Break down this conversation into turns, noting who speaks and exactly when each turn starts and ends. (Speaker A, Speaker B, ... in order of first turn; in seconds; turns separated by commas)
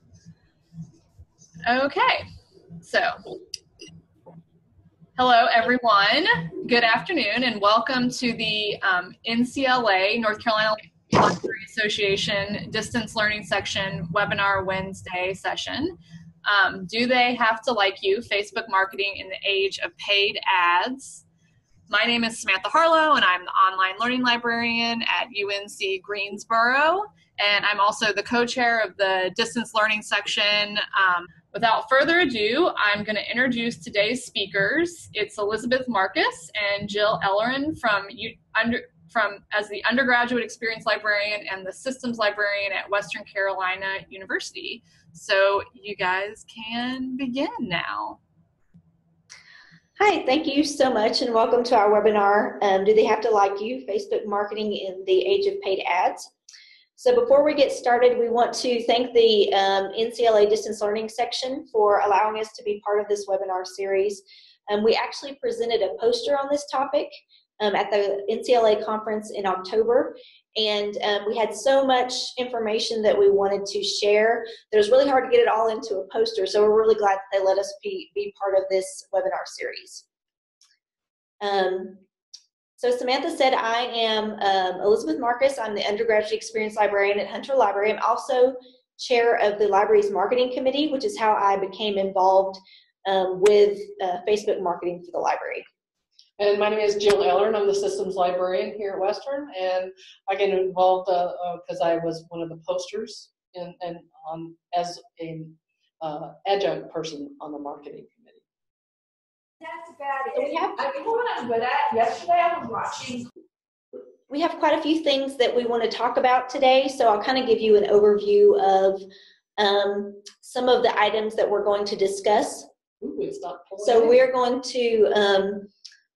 Speaker A: 1.6-2.3, Speaker A: 2.8-3.2, Speaker A: 5.2-21.2, Speaker A: 21.9-48.2, Speaker B: 50.0-56.3, Speaker B: 57.0-80.0, Speaker B: 81.4-82.0, Speaker B: 82.8-95.6, Speaker C: 96.4-108.4, Speaker D: 109.6-113.2, Speaker B: 110.3-110.8, Speaker B: 114.3-119.0, Speaker B: 119.6-122.7, Speaker C: 123.0-124.2, Speaker B: 123.8-125.7